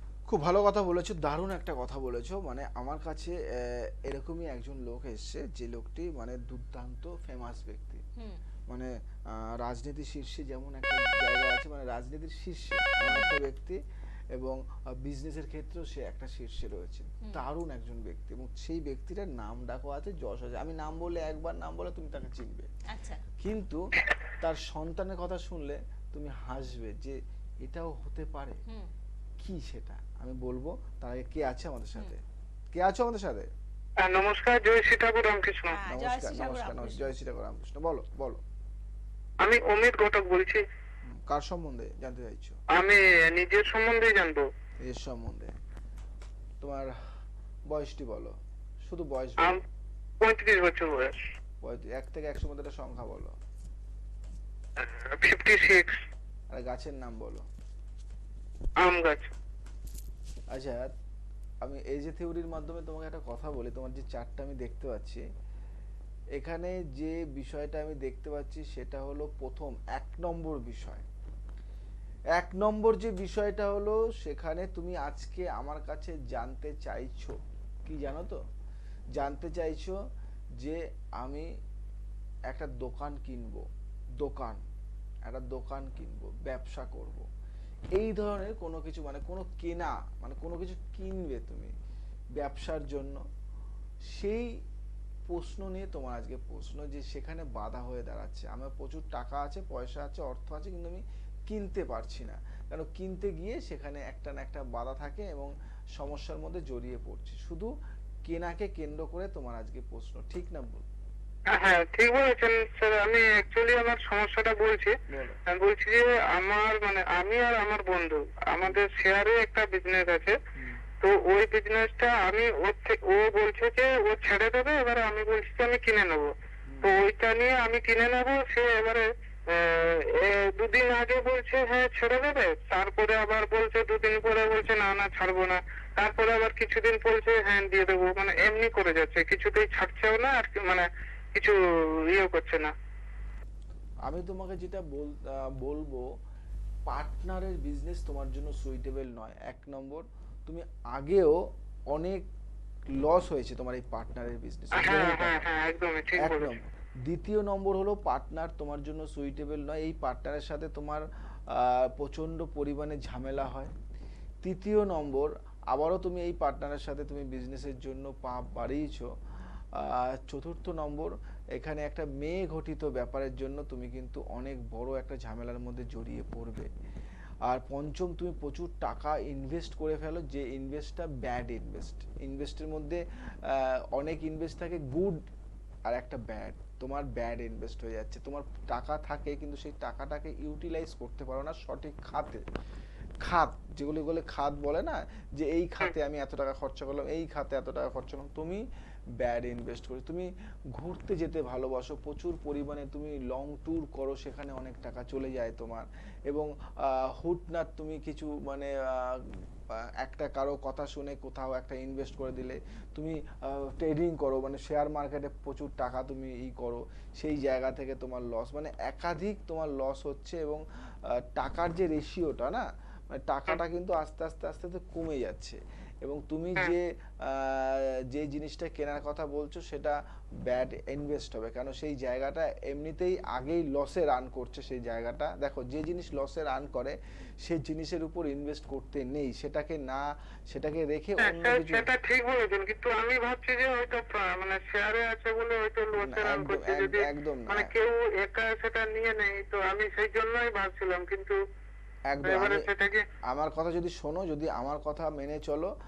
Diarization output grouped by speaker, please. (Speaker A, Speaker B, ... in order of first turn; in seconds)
Speaker A: 0.3-8.0, 8.7-13.8, 14.3-22.7, 23.4-23.8, 24.4-28.6, 29.4-32.2, 32.7-33.5, 35.9-38.4, 41.1-42.6, 44.8-45.5, 46.6-46.9, 47.7-49.6, 51.6-53.4, 56.5-57.5, 60.5-60.9, 61.6-65.2, 66.4-71.0, 72.3-78.4, 79.2-80.0, 80.6-81.5, 82.5-83.7, 84.2-84.6, 85.2-87.2, 87.9-91.7, 92.4-93.2, 94.1-94.5, 95.3-107.7, 108.2-110.8, 115.1-115.4, 120.5-120.8, 126.7-127.0, 144.1-146.1, 146.9-152.3, 152.9-155.5, 156.2-163.7, 164.4-169.1, 169.8-176.7, 177.4-185.2, 185.9-192.4, 193.2-198.6, 199.2-241.9, 246.0-247.7, 252.1-252.7, 253.2-255.7
Speaker B: 13.1-13.3, 22.9-23.2, 35.7-37.1
Speaker C: 34.0-35.8, 39.4-40.6, 42.7-44.4, 50.2-51.2, 54.8-56.0, 58.8-59.3, 111.5-114.9, 115.5-120.3, 121.0-126.3, 126.8-142.7, 154.7-156.5, 241.2-251.4, 252.2-253.1